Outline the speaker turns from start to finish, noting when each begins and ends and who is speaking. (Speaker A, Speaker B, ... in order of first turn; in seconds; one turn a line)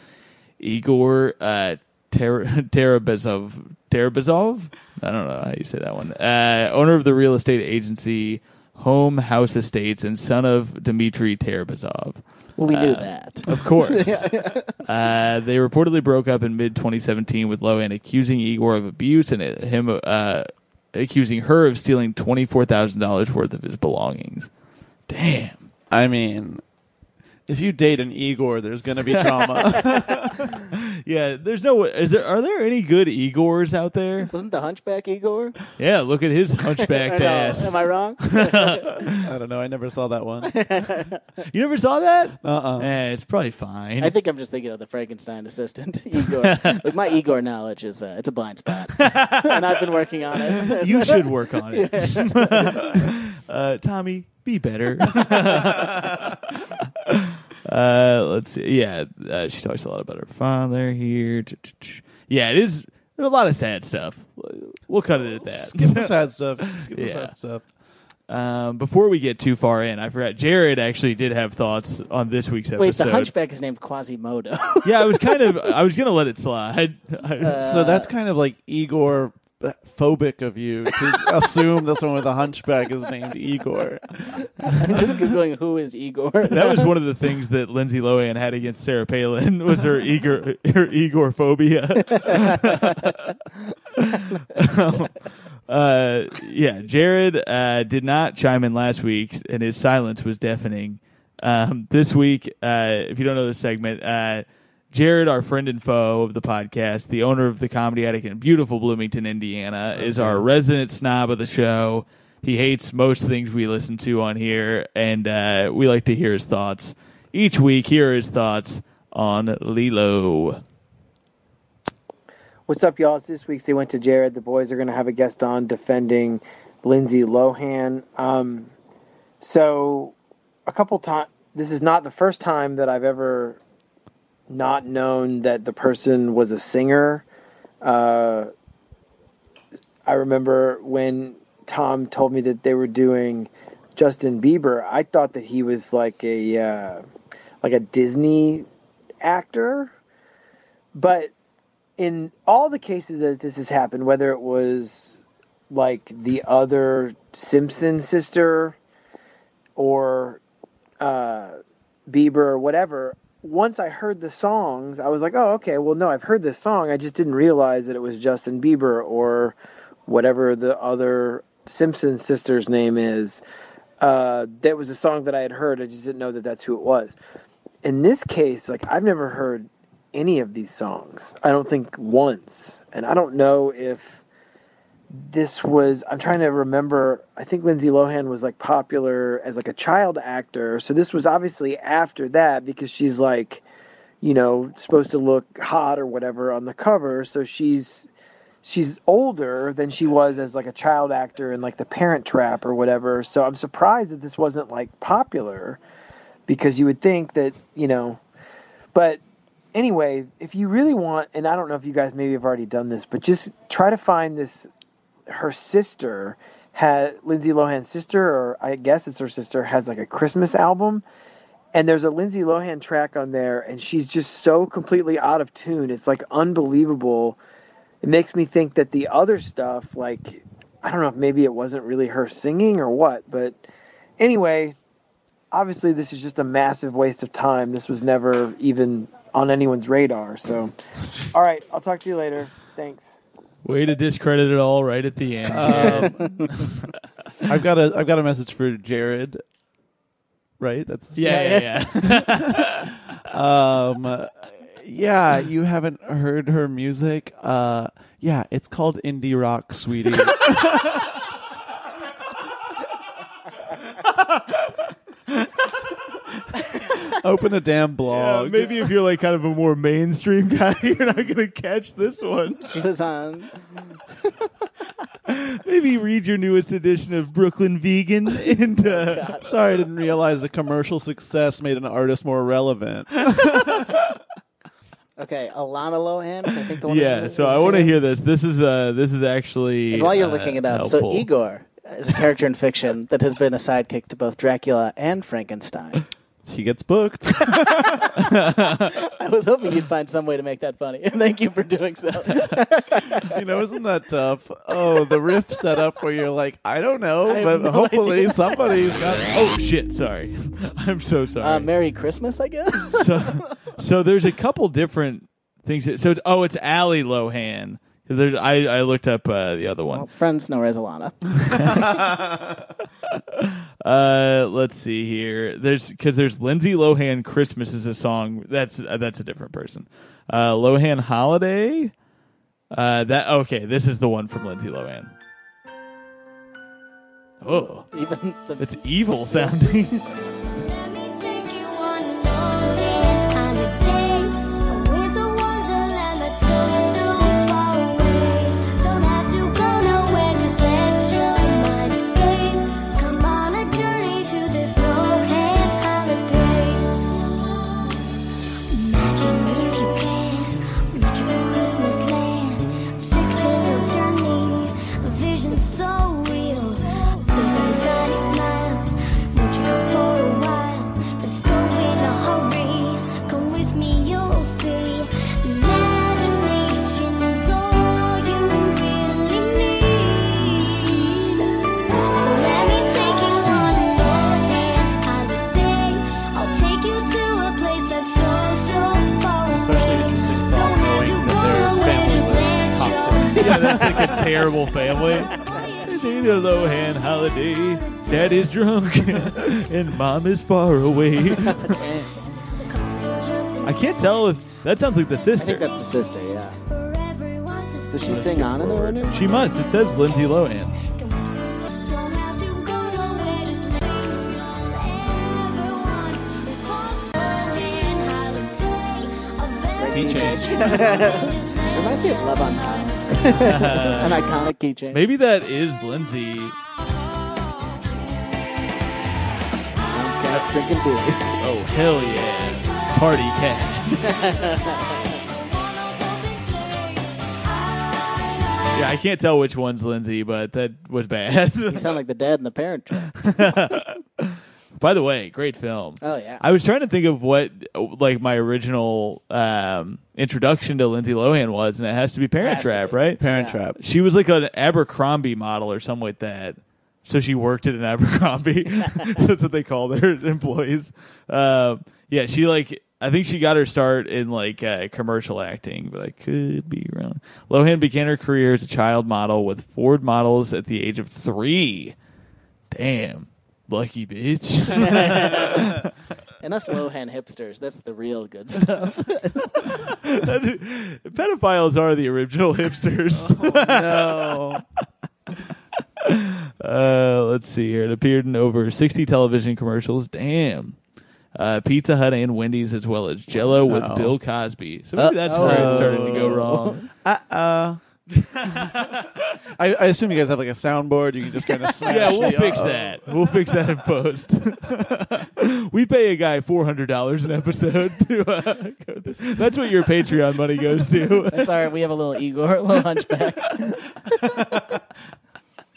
Speaker A: 0.6-24.5
Speaker B: 12.6-14.8
Speaker A: 25.1-25.7
Speaker C: 25.9-26.6
Speaker C: 27.5-30.5
Speaker A: 30.7-34.3
Speaker B: 34.3-35.6
Speaker A: 35.8-37.8
Speaker B: 36.8-39.0
Speaker A: 38.3-39.2
Speaker C: 39.2-40.7
Speaker B: 40.4-41.2
Speaker A: 41.5-44.1
Speaker C: 42.4-42.9
Speaker B: 44.0-53.1
Speaker A: 46.3-46.8
Speaker A: 49.0-50.0
Speaker A: 50.5-66.1
Speaker C: 65.4-67.7
Speaker A: 66.8-67.3
Speaker A: 68.3-73.3
Speaker B: 72.8-75.5
Speaker A: 74.8-77.7
Speaker B: 77.4-78.1
Speaker C: 77.6-84.9
Speaker B: 84.7-87.0
Speaker A: 86.5-93.2
Speaker A: 94.0-120.6
Speaker C: 110.0-110.5
Speaker D: 122.7-128.7
Speaker D: 129.4-130.2
Speaker D: 130.7-133.6
Speaker D: 134.5-137.2
Speaker D: 137.8-138.5
Speaker D: 140.1-147.0
Speaker D: 147.6-148.7
Speaker D: 149.2-149.9
Speaker D: 151.0-151.3
Speaker D: 152.0-158.8
Speaker D: 159.8-160.4
Speaker D: 161.0-173.4
Speaker D: 174.0-177.2
Speaker D: 177.8-184.2
Speaker D: 185.1-193.7
Speaker D: 194.2-198.1
Speaker D: 198.6-205.8
Speaker D: 206.5-208.2
Speaker D: 208.9-209.2
Speaker D: 209.7-214.7
Speaker D: 215.3-221.0
Speaker D: 221.7-227.4
Speaker D: 228.0-233.6
Speaker D: 234.2-234.8
Speaker D: 235.5-240.7
Speaker D: 241.3-243.2
Speaker A: 243.6-246.9
Speaker C: 245.5-246.5
Speaker B: 245.7-246.4
Speaker C: 247.5-249.4
Speaker C: 250.6-252.6
Speaker A: 251.2-252.9
Speaker C: 253.3-260.6
Speaker C: 266.9-268.8
Speaker A: 268.1-272.8
Speaker B: 272.7-273.5
Speaker A: 275.3-279.3
Speaker B: 278.8-279.5
Speaker C: 279.4-283.8
Speaker B: 285.2-288.0
Speaker A: 286.9-291.3
Speaker B: 289.9-296.1
Speaker C: 296.5-297.7
Speaker B: 297.6-298.1
Speaker A: 298.2-299.0
Speaker B: 298.7-303.4
Speaker C: 303.2-309.4
Speaker B: 307.3-308.8
Speaker A: 309.2-311.7
Speaker B: 311.4-313.5
Speaker A: 312.8-320.1
Speaker B: 319.9-322.0
Speaker A: 321.5-322.1
Speaker A: 323.1-331.9
Speaker A: 332.7-335.1
Speaker A: 337.4-337.9
Speaker B: 337.5-338.8
Speaker A: 338.6-340.0
Speaker E: 340.6-356.9
Speaker E: 358.7-398.5
Speaker C: 389.5-394.1
Speaker A: 393.4-395.3
Speaker A: 395.9-401.8
Speaker B: 401.3-402.1
Speaker E: 401.6-404.4
Speaker A: 403.6-405.7
Speaker B: 405.4-406.6
Speaker E: 406.6-424.1
Speaker B: 407.9-409.2
Speaker A: 408.1-410.7
Speaker C: 408.3-408.8
Speaker B: 419.8-425.0
Speaker A: 419.9-421.0
Speaker A: 423.4-424.2
Speaker A: 424.9-426.6
Speaker B: 429.8-431.4
Speaker A: 431.4-434.1
Speaker E: 431.7-433.2
Speaker B: 434.0-435.2
Speaker E: 434.1-438.8
Speaker A: 438.7-442.0
Speaker B: 441.7-443.7
Speaker A: 443.2-453.3
Speaker B: 446.0-446.4
Speaker B: 452.4-453.6
Speaker C: 453.2-453.8
Speaker A: 453.8-472.0
Speaker A: 472.7-475.9
Speaker B: 474.8-475.8
Speaker B: 476.4-479.9
Speaker A: 479.7-484.6
Speaker C: 483.1-484.6
Speaker A: 486.0-490.8
Speaker A: 491.4-496.8
Speaker C: 493.7-494.1
Speaker C: 495.0-497.8
Speaker B: 495.3-496.9
Speaker C: 498.5-498.8
Speaker A: 498.5-499.2
Speaker C: 499.6-503.0
Speaker A: 501.8-511.5
Speaker B: 511.3-514.1
Speaker A: 514.1-514.8